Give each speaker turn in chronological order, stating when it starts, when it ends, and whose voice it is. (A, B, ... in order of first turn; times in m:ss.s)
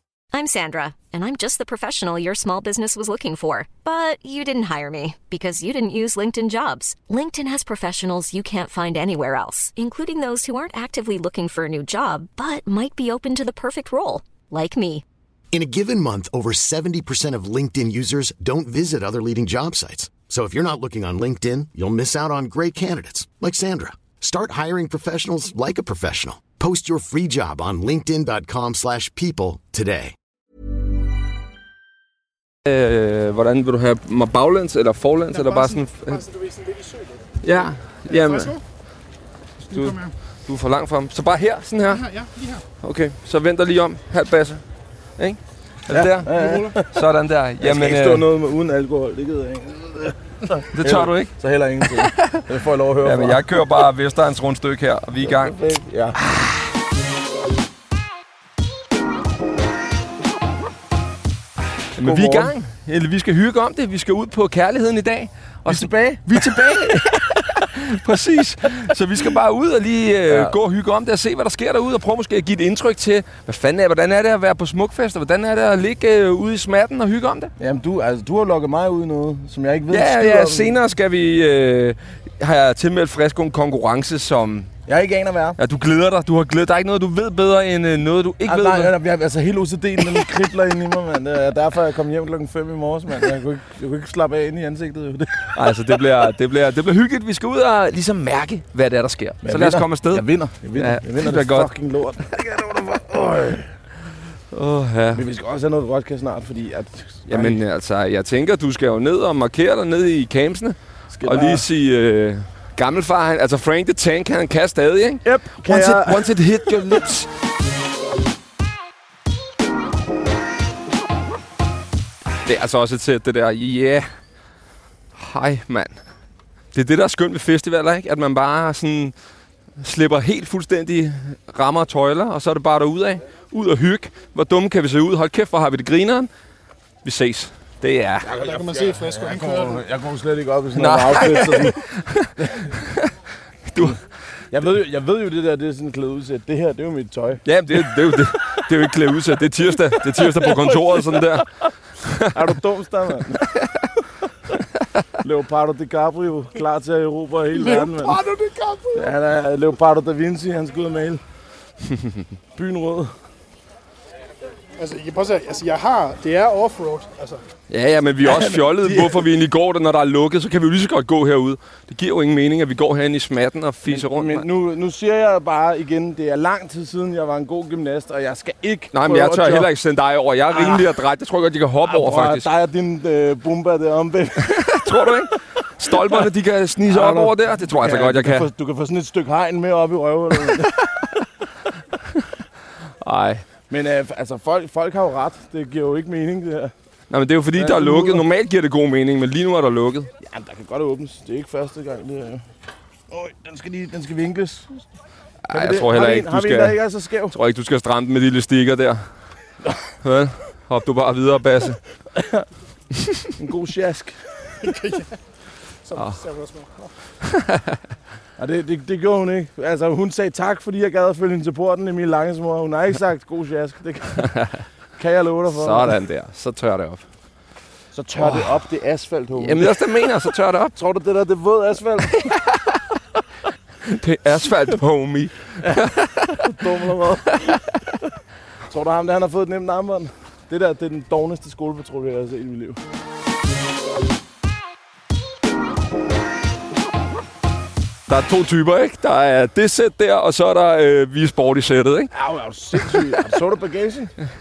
0:00.3-0:15.0 A
0:15.5-0:30.1 B
0:32.6-0:36.2 C
0:35.3-0:37.2 D
0:37.4-0:38.6 C
0:38.1-0:38.6 D
0:39.6-0:40.1 D
0:39.7-0:42.1 C
0:41.9-0:42.6 D
0:42.8-0:44.6 C
0:45.2-0:48.2 C
0:45.9-0:47.0 E
0:46.3-0:46.7 D
0:47.6-0:53.5 E
0:50.7-0:51.3 C
0:51.9-0:52.4 C
0:53.0-0:55.5 C
0:55.2-0:56.2 E
1:02.0-1:17.5 C
1:02.0-1:02.5 E
1:05.6-1:06.6 E
1:10.3-1:10.5 E
1:17.6-1:20.7 E
1:19.9-1:24.7 C
1:24.9-1:25.6 E
1:25.6-1:28.9 C
1:28.4-1:35.5 E
1:35.5-1:40.2 C
1:39.4-1:43.7 E
1:40.8-1:41.7 C
1:44.5-1:45.2 C
1:45.1-1:47.6 E
1:47.3-1:57.3 C
1:51.1-1:51.6 E
1:55.2-1:56.3 E
2:02.4-2:04.0 C
2:05.1-2:05.9 C
2:06.7-2:09.1 C
2:09.8-2:16.3 C
2:17.0-2:18.3 C
2:18.2-2:21.8 E
2:18.4-2:19.8 D
2:20.8-2:23.1 C
2:22.4-2:22.7 E
2:23.7-2:24.0 C
2:24.5-2:28.6 E
2:27.4-2:31.5 C
2:29.9-2:31.4 E
2:32.0-2:32.5 C
2:32.3-2:34.0 E
2:35.2-2:38.2 E
2:37.5-2:39.1 D
2:38.9-2:41.2 E
2:42.5-2:43.1 E
2:44.8-2:47.4 D
2:47.7-2:54.4 C
2:48.2-2:49.2 E
2:53.9-2:59.7 E
2:58.9-3:02.4 C
3:00.5-3:00.8 E
3:01.8-3:04.7 E
3:04.4-3:08.5 C
3:05.9-3:06.2 E
3:06.9-3:11.1 E
3:13.0-3:13.4 C
3:13.7-3:16.7 E
3:17.1-3:20.1 C
3:17.6-3:18.2 E
3:20.2-3:22.4 E
3:23.1-3:24.8 E
3:25.5-3:26.8 C
3:25.5-3:27.3 E
3:27.3-3:29.0 C
3:30.0-3:31.8 C
3:32.1-3:32.4 E
3:33.0-3:33.3 C
3:33.4-3:34.7 E
3:34.6-3:35.1 D
3:35.8-3:36.9 D
3:37.2-3:37.8 C
3:38.4-3:44.3 E
3:44.3-3:44.5 C
3:45.0-3:45.9 E
3:45.5-3:47.0 C
3:47.9-3:49.9 E
3:48.2-3:48.5 C
3:49.4-3:50.7 C
3:50.7-3:52.4 E
3:53.8-3:56.4 C
3:56.3-3:57.7 E
3:58.7-4:02.8 E
4:08.1-4:12.1 C
4:12.1-4:14.1 E
4:12.7-4:13.0 C